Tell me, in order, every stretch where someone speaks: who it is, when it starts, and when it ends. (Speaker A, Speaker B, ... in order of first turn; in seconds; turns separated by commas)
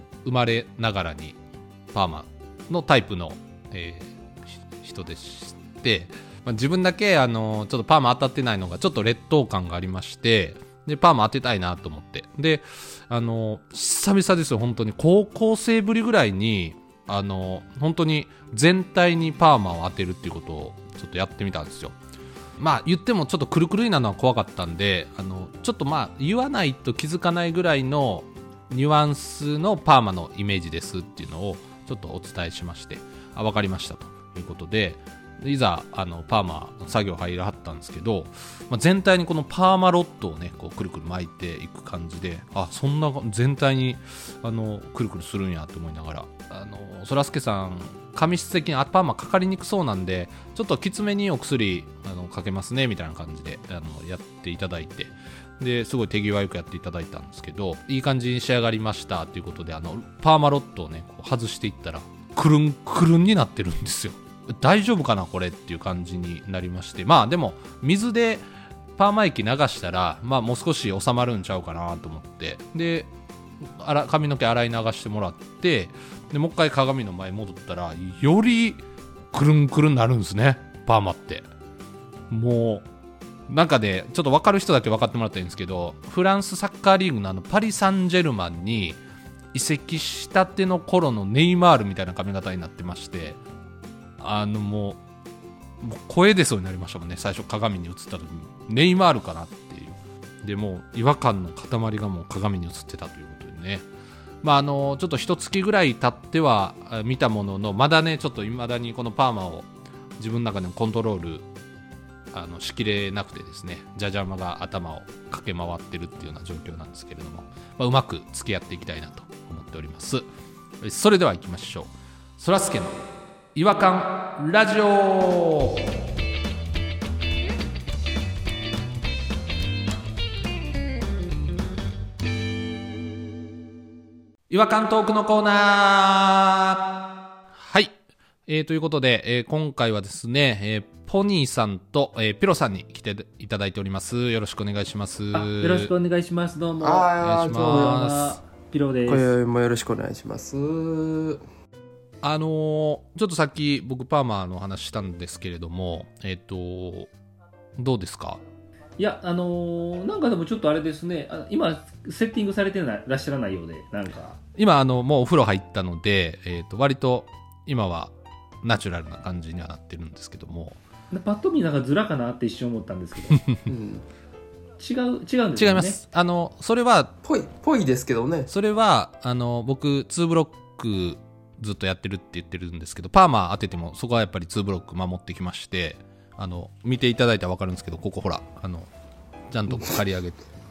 Speaker A: 0.2-1.4, Speaker A: 1.9-22.0, Speaker A: 22.6-68.5, Speaker A: 69.0-73.1, Speaker A: 73.8-81.5, Speaker A: 82.3-82.9, Speaker A: 83.5-89.0, Speaker A: 89.5-93.4, Speaker A: 94.2-95.0, Speaker A: 95.8-103.9, Speaker A: 104.4-109.7, Speaker A: 110.2-111.5, Speaker A: 112.3-120.3, Speaker A: 120.8-123.0, Speaker A: 123.5-125.9, Speaker A: 134.5-136.8, Speaker A: 137.6-137.9, Speaker A: 138.5-145.9, Speaker B: 145.3-149.3, Speaker C: 146.8-148.0, Speaker A: 147.2-148.4, Speaker C: 149.1-151.4, Speaker A: 152.2-157.1, Speaker A: 157.8-158.4, Speaker B: 159.0-164.4, Speaker A: 164.6-170.8, Speaker B: 171.1-173.5, Speaker C: 173.7-174.1, Speaker B: 174.8-176.0, Speaker A: 175.6-177.1, Speaker C: 177.2-178.5, Speaker A: 178.5-188.9, Speaker A: 189.5-190.4, Speaker C: 189.7-190.0